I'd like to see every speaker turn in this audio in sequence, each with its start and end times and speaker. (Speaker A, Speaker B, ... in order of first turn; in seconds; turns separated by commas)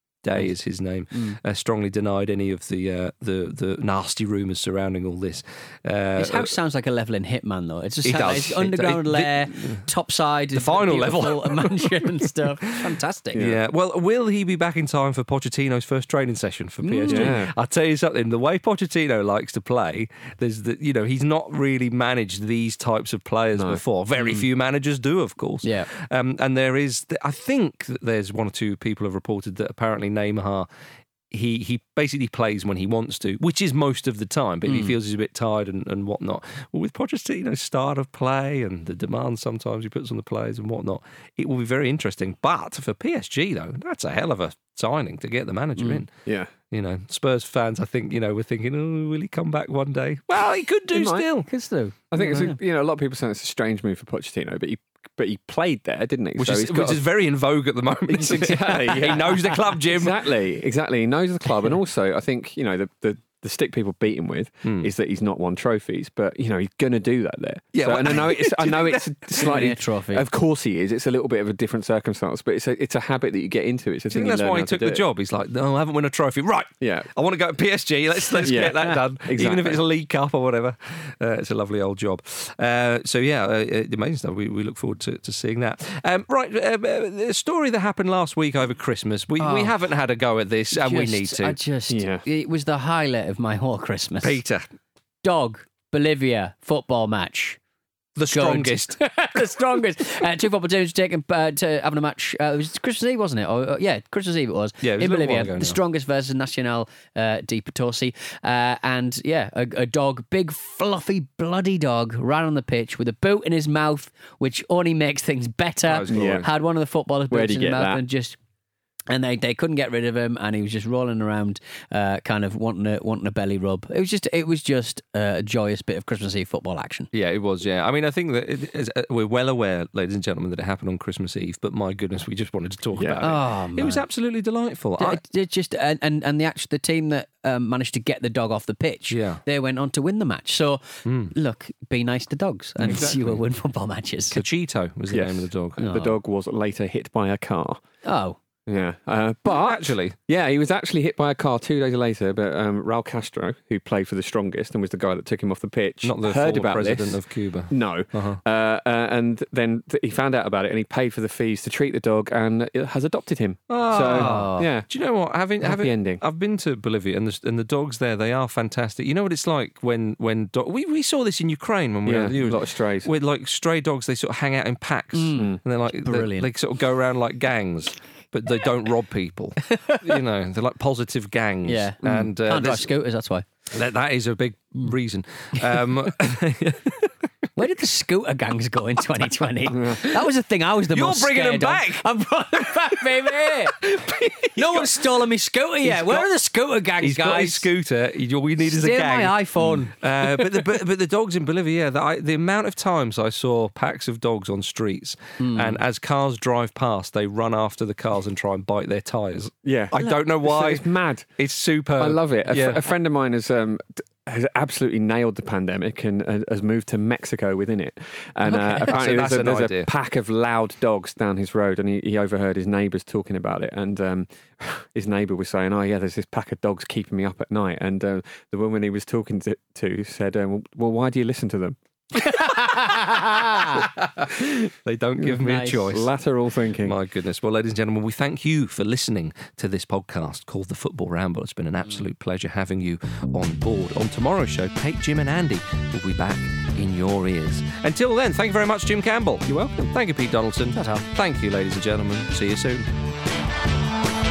Speaker A: 0.2-6.5, Speaker B: 1.1-1.4, Speaker B: 6.2-13.4, Speaker A: 8.1-9.9, Speaker A: 10.5-12.5, Speaker C: 13.3-13.6, Speaker A: 13.4-30.7, Speaker B: 16.8-17.4, Speaker C: 17.1-17.5, Speaker C: 23.6-23.8, Speaker B: 24.2-24.4, Speaker B: 25.6-25.9, Speaker A: 31.3-46.1, Speaker B: 34.7-35.0, Speaker B: 45.8-46.0, Speaker A: 46.7-51.5, Speaker C: 50.9-51.2, Speaker B: 51.5-52.6, Speaker C: 52.1-57.0, Speaker A: 56.4-60.3, Speaker C: 58.1-75.0, Speaker A: 64.7-64.9, Speaker A: 67.7-69.6, Speaker B: 69.4-70.3, Speaker A: 74.1-91.6, Speaker C: 76.8-77.1, Speaker C: 78.4-79.8, Speaker B: 89.4-89.7, Speaker B: 90.7-94.4, Speaker C: 91.9-92.2, Speaker A: 94.2-94.7, Speaker B: 95.2-97.6, Speaker A: 98.2-99.0, Speaker B: 98.3-118.4, Speaker A: 104.8-105.8, Speaker A: 115.9-116.5, Speaker C: 116.1-116.5, Speaker C: 117.3-118.0, Speaker B: 119.1-127.1, Speaker A: 127.1-135.2, Speaker C: 133.0-133.2, Speaker B: 133.2-134.0, Speaker B: 135.0-144.4, Speaker A: 139.1-139.4, Speaker A: 141.1-141.3, Speaker A: 142.8-143.4, Speaker A: 144.3-146.1, Speaker C: 145.1-147.8, Speaker B: 145.8-146.1, Speaker B: 148.0-148.4, Speaker C: 148.7-164.9, Speaker A: 149.5-150.2, Speaker A: 156.0-158.4, Speaker A: 163.7-182.9, Speaker B: 164.1-164.7, Speaker C: 165.6-166.2, Speaker C: 172.0-173.1, Speaker B: 175.1-176.5, Speaker B: 179.7-180.2, Speaker B: 181.7-183.5, Speaker A: 183.7-187.1, Speaker B: 187.6-193.8, Speaker A: 190.9-192.1, Speaker A: 193.3-195.0, Speaker B: 194.6-197.7, Speaker A: 195.8-196.3, Speaker A: 197.0-210.8, Speaker B: 198.6-200.6, Speaker B: 205.4-205.8, Speaker C: 209.6-211.3, Speaker A: 211.4-212.8, Speaker C: 212.0-231.8, Speaker B: 218.5-218.9, Speaker A: 218.7-219.9, Speaker B: 232.2-233.9, Speaker A: 233.8-236.1, Speaker B: 235.2-235.9, Speaker C: 235.9-237.0, Speaker A: 236.8-252.8, Speaker B: 250.7-251.1